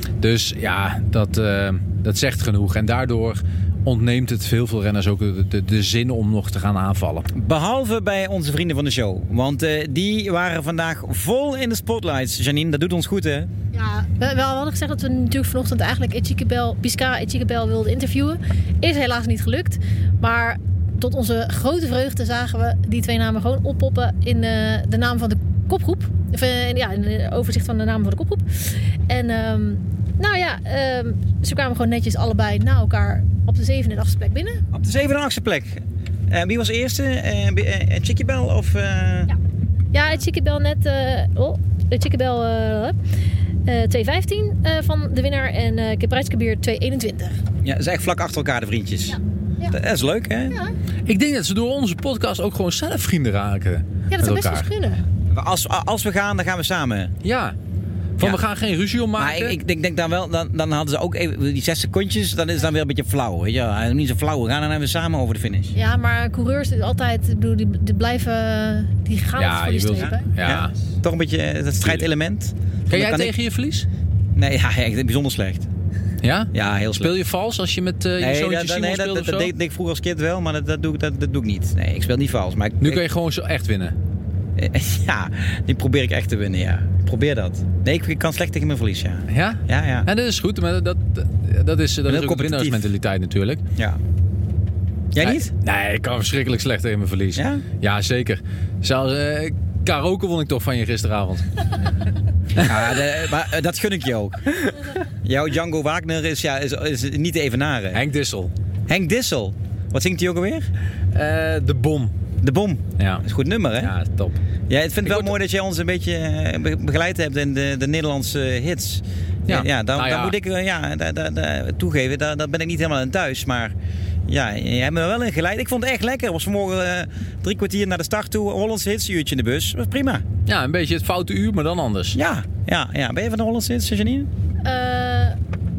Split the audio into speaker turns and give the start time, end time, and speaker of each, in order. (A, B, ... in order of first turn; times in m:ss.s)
0:00.2-0:07.3 A
0:07.3-0:13.5 B
0:13.7-0:34.6 C
0:34.7-0:39.3 B
0:39.9-0:43.0 C
0:43.7-0:47.4 C
0:47.6-0:49.2 B
0:49.1-0:49.8 C
0:49.7-0:50.6 B
0:51.1-0:54.7 A
0:54.1-0:55.0 C
0:55.3-0:57.1 B
0:57.2-0:57.6 A
0:58.2-0:59.6 A
0:59.2-1:05.7 B
1:05.8-1:10.3 C
1:09.4-1:10.7 A
1:10.0-1:13.3 B
1:11.8-1:12.1 A
1:12.9-1:13.9 A
1:14.4-1:15.7 B
1:16.2-1:19.5 A
1:16.5-1:17.1 B
1:18.2-1:23.0 B
1:22.8-1:24.0 A
1:24.6-1:30.1 B
1:29.3-1:33.6 A
1:32.1-1:32.8 B
1:35.1-1:35.5 B
1:35.2-1:41.5 A
1:37.4-1:37.6 B
1:42.6-1:48.0 B
1:42.6-1:43.0 A
1:47.9-1:48.5 A
1:48.9-1:50.7 B
1:51.1-1:52.1 A
1:52.4-1:53.9 B
1:53.0-1:53.2 A
1:53.8-1:54.4 A
1:54.7-2:03.7 B
1:55.0-1:55.3 A
1:59.5-2:00.4 A
2:04.3-2:10.2 B
2:10.5-2:12.2 A
2:12.1-2:14.3 B
2:14.6-2:15.4 C